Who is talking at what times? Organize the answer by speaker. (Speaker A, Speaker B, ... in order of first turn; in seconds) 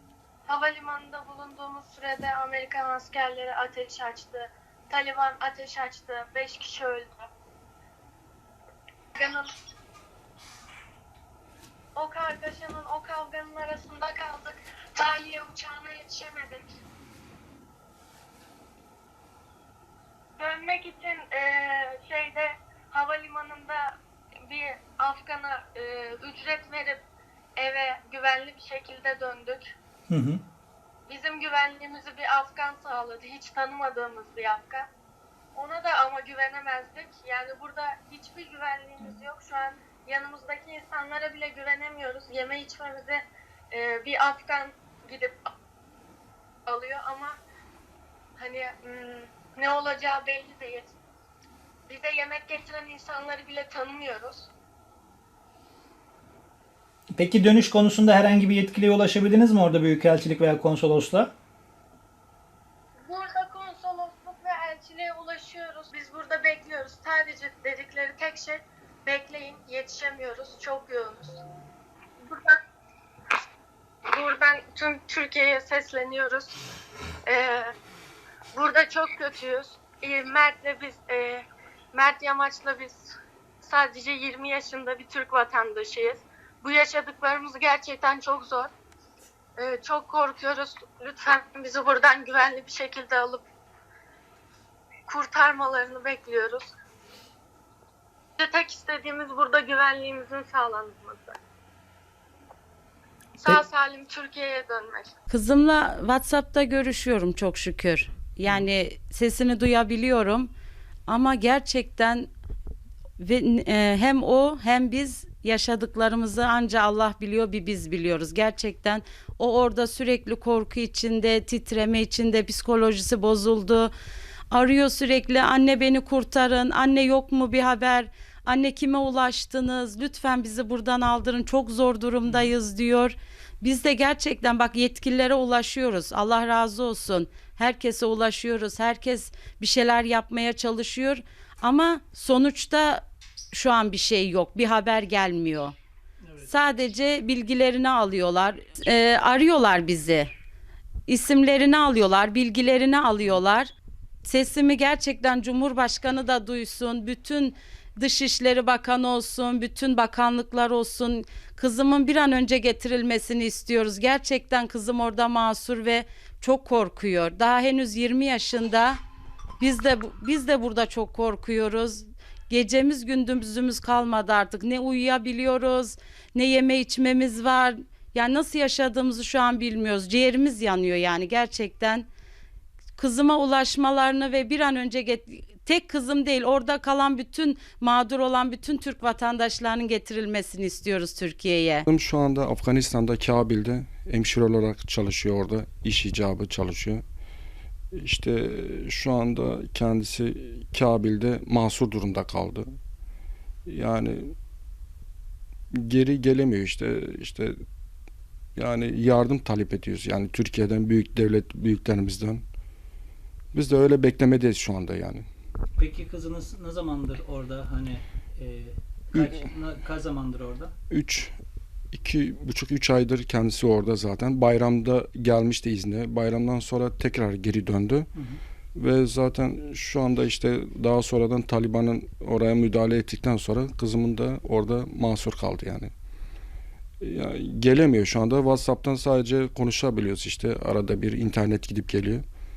Speaker A: 0.5-7.3, 9.2-9.5, 12.0-16.7, 20.4-23.9, 24.5-27.0, 27.6-29.7, 31.1-34.9, 35.5-45.4, 46.7-47.4, 48.4-51.0, 51.9-54.5, 63.0-71.4, 72.2-72.6, 74.1-76.5, 77.3-77.7, 78.5-88.7, 89.6-93.5, 95.1-96.7, 98.4-101.4, 103.4-105.1
Speaker B: 30.1-30.4, 57.1-61.3, 132.2-132.5, 215.8-220.7
Speaker C: 105.3-110.5, 111.1-112.3, 113.2-123.9, 124.5-145.8, 146.4-150.3, 151.1-153.7, 154.2-169.0, 169.6-182.1, 183.0-191.9
Speaker D: 191.9-197.0, 197.9-202.7, 203.7-204.3, 205.8-207.6, 208.6-212.4, 213.5-215.3, 220.9-221.3, 221.9-228.1, 228.8-235.9, 237.0-242.2